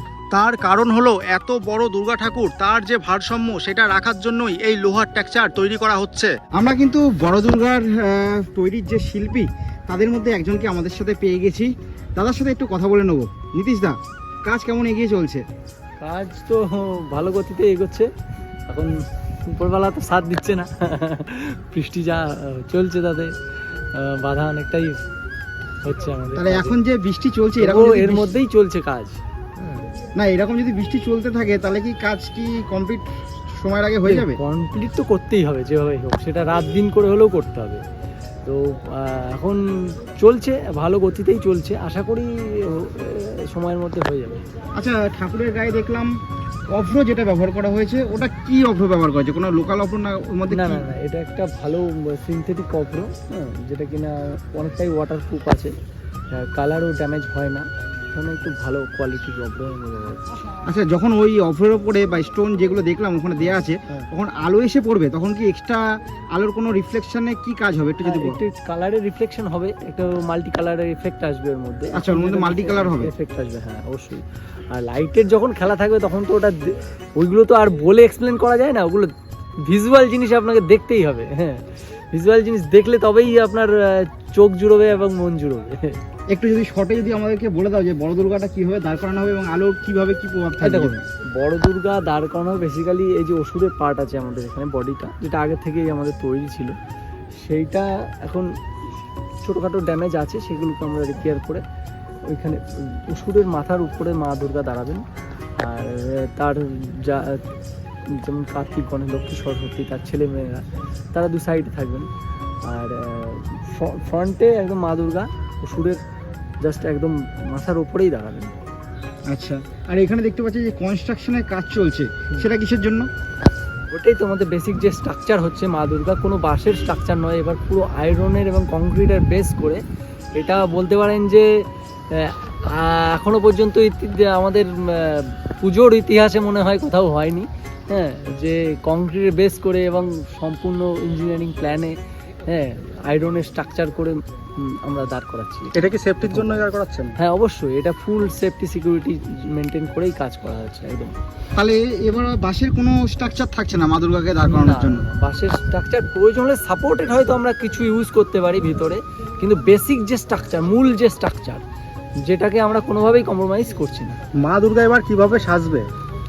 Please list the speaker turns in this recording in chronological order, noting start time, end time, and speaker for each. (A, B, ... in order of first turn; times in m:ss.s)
0:00.3-0:06.3 A
0:06.6-0:15.4 B
0:16.0-0:18.1 C
0:19.5-0:23.3 C
0:23.9-0:25.0 C
0:25.8-0:26.8 C
0:26.4-0:28.4 B
0:27.6-0:29.8 C
0:30.2-0:34.4 B
0:34.1-0:37.8 C
0:38.4-0:44.4 C
0:44.8-0:46.1 B
0:46.7-0:50.9 B
0:50.5-0:55.7 C
0:56.4-1:00.2 C
1:00.7-1:08.4 B
1:08.0-1:19.1 C
1:11.9-1:13.1 B
1:19.6-1:26.0 C
1:26.3-1:30.9 B
1:30.6-1:36.7 C
1:37.4-1:38.5 C
1:39.4-1:41.6 C
1:42.3-1:45.0 C
1:45.6-1:47.4 C
1:48.1-1:52.1 C
1:52.7-1:56.0 C
1:56.6-1:58.5 C
1:59.3-2:03.1 B
2:03.9-2:09.8 C
2:10.4-2:11.5 C
2:12.1-2:22.0 C
2:22.5-2:26.6 C
2:25.8-2:27.1 A
2:27.2-2:31.1 C
2:31.6-2:35.1 B
2:34.5-2:41.6 C
2:42.2-2:44.2 C
2:44.4-2:45.9 A